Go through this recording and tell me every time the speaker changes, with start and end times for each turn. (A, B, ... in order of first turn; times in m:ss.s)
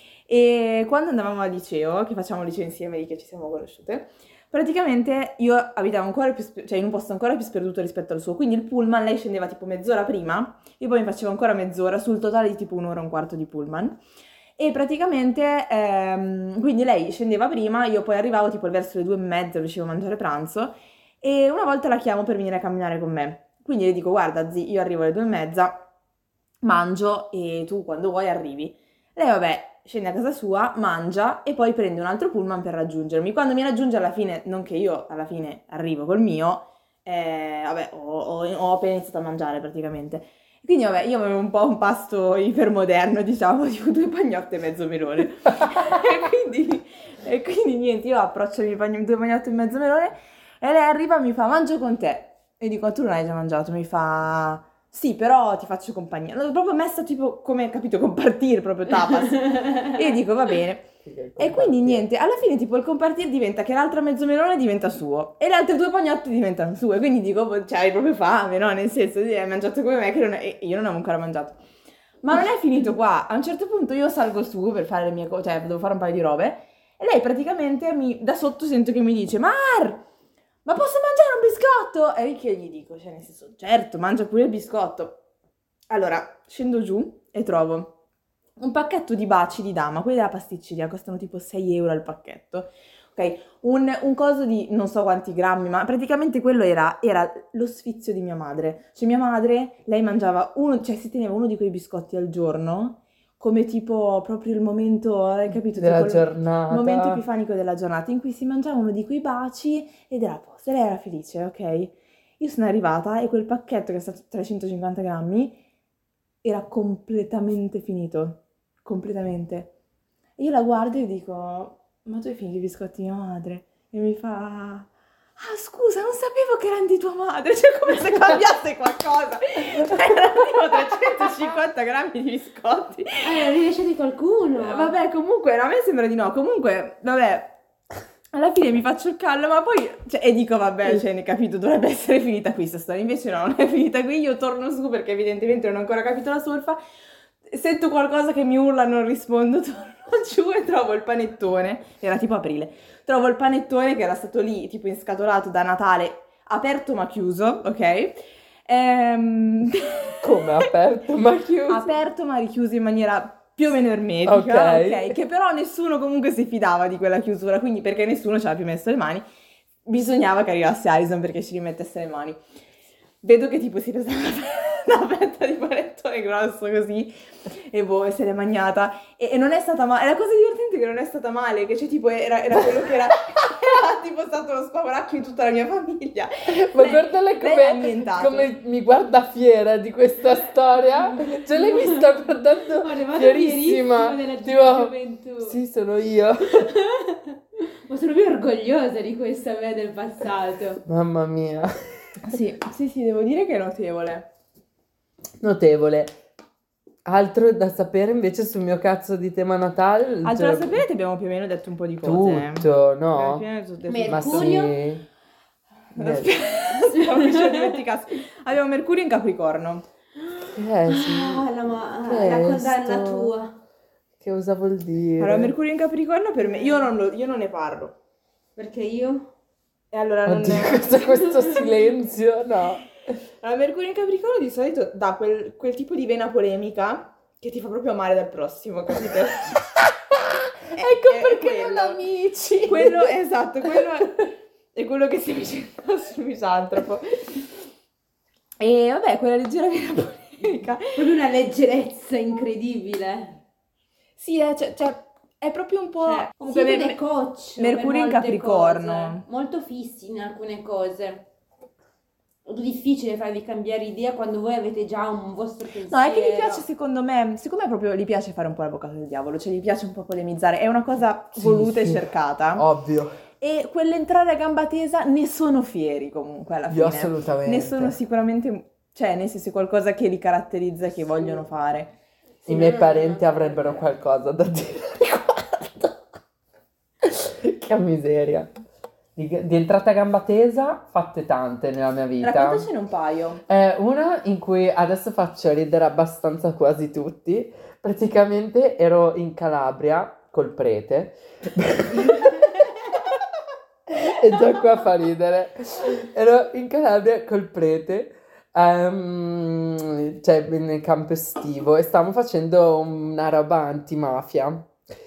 0:00.3-0:14.0 A
0:14.6-0:25.8 A
0:26.6-1:11.6 A
0:59.4-0:59.9 B
1:01.0-1:02.0 C
1:12.2-1:20.0 A
1:20.6-1:25.2 A
1:25.9-1:27.9 A
1:28.6-1:55.6 A
1:45.7-1:47.2 C
1:56.4-1:59.7 A
2:00.4-2:13.5 A
2:13.2-2:14.9 B
2:14.6-2:17.6 A
2:18.3-2:26.8 A
2:27.5-2:40.7 A
2:40.2-2:41.9 C
2:41.6-2:49.2 A
2:44.2-2:45.2 C
2:49.8-2:52.4 A
2:53.2-3:08.5 A
3:06.5-3:16.7 C
3:10.8-3:15.6 B
3:16.5-3:20.8 B
3:20.8-3:21.7 C
3:22.2-3:24.3 A
3:25.4-3:26.2 C
3:27.0-3:30.8 C
3:30.2-3:34.6 A
3:32.0-3:33.4 C
3:33.9-3:34.8 B
3:34.1-3:35.0 C
3:35.9-3:39.8 A
3:35.9-3:36.3 C
3:36.9-3:37.7 B
3:40.2-3:43.6 B
3:40.5-3:41.4 C
3:42.0-3:43.3 C
3:44.2-3:45.5 C
3:45.2-3:47.9 A
3:46.4-3:46.9 B
3:48.6-3:49.3 B
3:49.9-3:51.0 A
3:50.2-3:52.8 C
3:51.1-3:51.6 B
3:53.4-3:59.6 A
4:00.1-4:03.0 C
4:00.7-4:02.0 A
4:01.3-4:01.9 B
4:02.4-4:02.7 B
4:02.6-4:07.5 A
4:08.6-4:10.9 A
4:10.9-4:13.4 B
4:14.2-4:17.0 A
4:16.0-4:21.3 B
4:17.6-4:19.2 A
4:22.4-4:26.6 B
4:25.9-4:32.6 A
4:31.4-4:33.2 C
4:33.4-4:41.9 A
4:36.7-4:38.0 C
4:42.4-4:43.9 B
4:42.5-4:46.0 C
4:47.0-4:48.5 C
4:49.1-4:52.6 C
4:52.2-4:53.4 A
4:53.5-5:03.2 C
5:03.9-5:14.8 C